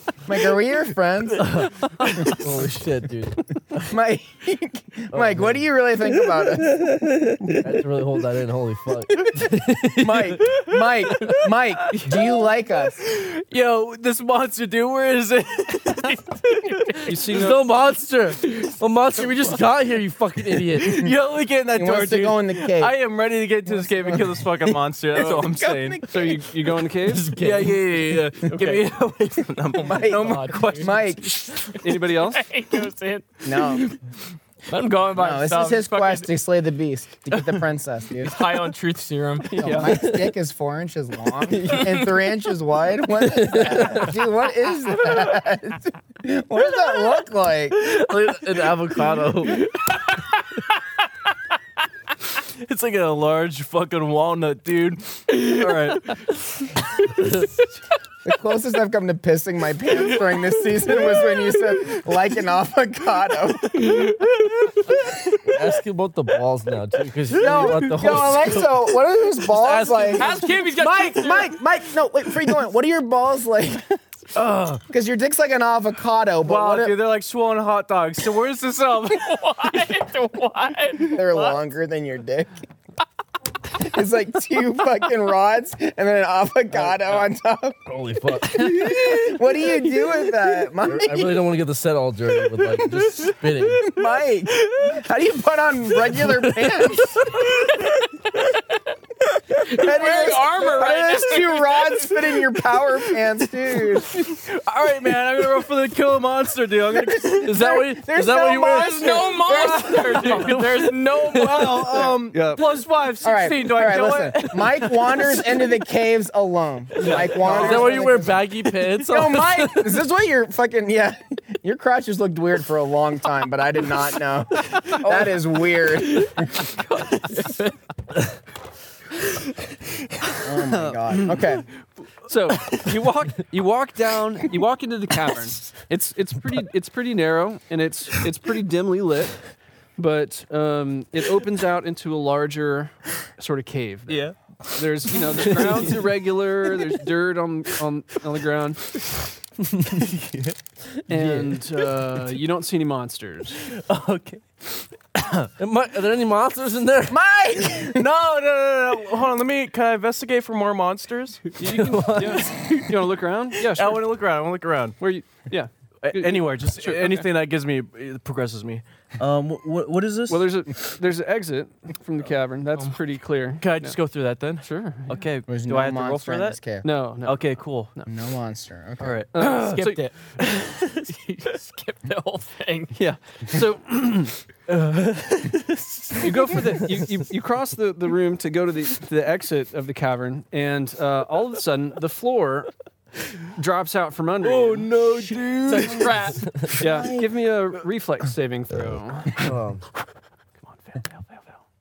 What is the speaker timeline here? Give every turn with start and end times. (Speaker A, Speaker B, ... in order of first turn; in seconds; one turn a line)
Speaker A: 0.2-1.7
Speaker B: 1.3-3.4
Speaker A: 3.7-7.7
Speaker B: 5.1-5.7
Speaker B: 7.6-10.4
Speaker C: 10.0-12.4
Speaker A: 10.0-13.1
Speaker C: 13.0-17.1
Speaker D: 17.0-17.6
Speaker B: 17.3-21.1
Speaker C: 20.8-26.1
Speaker A: 20.9-21.1
Speaker A: 21.7-23.0
Speaker A: 23.6-26.4
Speaker D: 26.1-27.3
Speaker B: 27.1-27.8
Speaker C: 27.3-31.5
Speaker E: 29.7-34.0
Speaker A: 29.8-31.5
Speaker D: 31.8-32.4
Speaker A: 33.4-33.9
Speaker E: 34.7-36.3
Speaker A: 35.1-38.4
Speaker E: 38.2-39.9
Speaker D: 39.5-40.0
Speaker A: 39.5-48.0
Speaker E: 41.6-42.1
Speaker B: 43.4-44.1
Speaker B: 47.7-49.7
Speaker C: 52.4-56.6
Speaker A: 58.2-64.1
Speaker E: 63.8-64.7
Speaker B: 65.4-68.9
Speaker C: 67.3-68.3
Speaker A: 67.4-74.0
Speaker B: 69.5-70.2
Speaker E: 70.1-71.5
Speaker C: 74.3-74.8
Speaker A: 74.9-77.1
Speaker C: 76.4-79.4
Speaker E: 79.1-81.6
Speaker A: 81.0-82.7
Speaker A: 83.8-87.8
Speaker B: 86.7-87.2
Speaker B: 87.9-89.1
Speaker A: 88.4-91.5
Speaker B: 90.8-93.9
Speaker A: 93.7-97.4
Speaker C: 97.2-97.9
Speaker A: 99.6-104.2
Speaker E: 99.6-102.1
Speaker C: 104.1-107.8
Speaker A: 107.1-110.1
Speaker B: 107.4-111.9
Speaker E: 108.7-112.1
Speaker C: 109.9-110.6
Speaker C: 111.3-115.6
Speaker D: 112.3-112.6
Speaker A: 113.2-126.7
Speaker D: 117.0-118.0
Speaker C: 117.1-118.0
Speaker B: 117.4-120.0
Speaker E: 126.2-127.8
Speaker A: 130.4-131.7
Speaker D: 130.7-131.3
Speaker D: 132.3-139.4
Speaker D: 140.0-148.9
Speaker C: 144.1-145.9
Speaker C: 149.6-150.6
Speaker D: 151.1-153.6
Speaker B: 151.1-151.6
Speaker C: 153.7-155.5
Speaker B: 155.6-157.2
Speaker A: 157.1-158.1
Speaker C: 157.7-161.6
Speaker D: 161.6-164.0
Speaker B: 161.7-162.6
Speaker C: 163.7-165.0
Speaker D: 165.0-167.3
Speaker C: 166.0-170.5
Speaker D: 170.3-173.9
Speaker C: 173.6-176.6
Speaker D: 174.6-175.2
Speaker A: 175.5-176.9
Speaker D: 176.8-178.1
Speaker C: 177.2-177.9
Speaker A: 178.1-179.2
Speaker C: 179.0-179.9
Speaker D: 179.3-180.0
Speaker E: 179.4-182.9
Speaker C: 180.6-181.0
Speaker D: 182.9-184.3
Speaker C: 184.7-186.9
Speaker D: 186.2-192.7
Speaker D: 193.5-194.9
Speaker C: 194.4-196.1
Speaker E: 195.7-196.4
Speaker A: 196.7-197.3
Speaker D: 196.8-199.4
Speaker B: 199.4-199.8
Speaker D: 200.7-201.6